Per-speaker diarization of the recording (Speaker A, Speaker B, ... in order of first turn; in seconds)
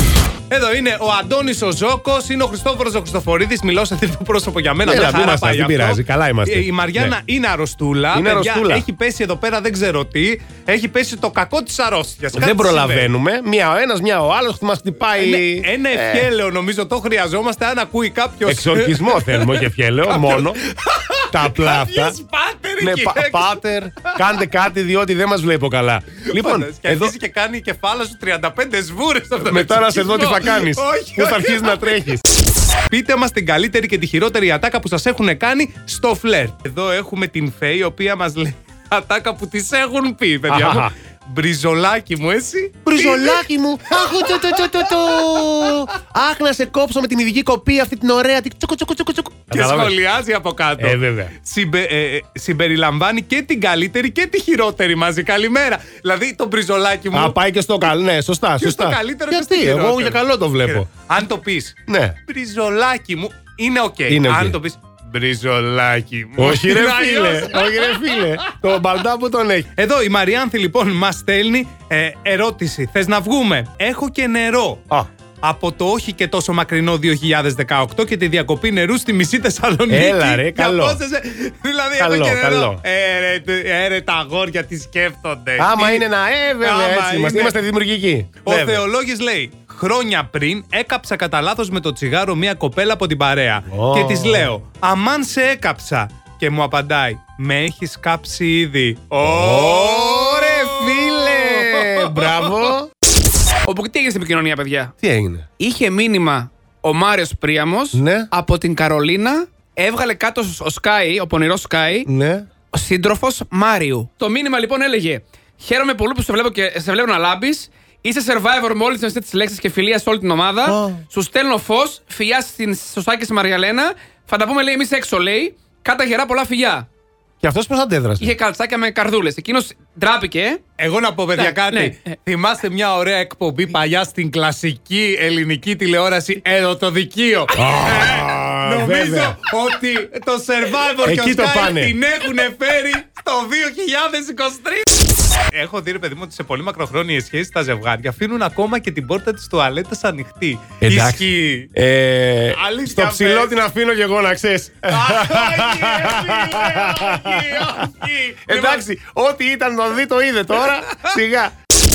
Speaker A: 0.5-13.1, 15.2-24.2, 26.3-32.2, 32.9-45.8, 49.5-57.4, 58.6-68.4, 69.7-74.8, 75.4-86.1, 86.6-87.6, 88.4-102.5, 130.8-144.9, 145.5-151.7, 152.5-153.6, 154.9-158.9, 160.7-161.1
Speaker B: 4.8-7.1, 8.1-8.8, 12.3-16.3, 18.4-20.6, 21.3-22.2, 22.8-27.1, 29.5-32.2, 40.5-40.9, 42.9-49.9, 50.8-51.3, 57.1-60.9, 61.9-62.2, 64.1-64.6, 66.4-69.7, 79.9-81.0, 82.0-82.8, 85.6-88.8, 93.7-94.5, 99.2-102.9, 105.0-105.5, 107.9-108.3, 112.0-112.5, 120.6-121.0, 127.4-128.3, 137.5-139.3, 141.0-141.9, 150.8-161.5
Speaker C: 103.6-104.9, 105.6-112.1, 112.7-126.9, 128.2-130.6, 131.4-132.0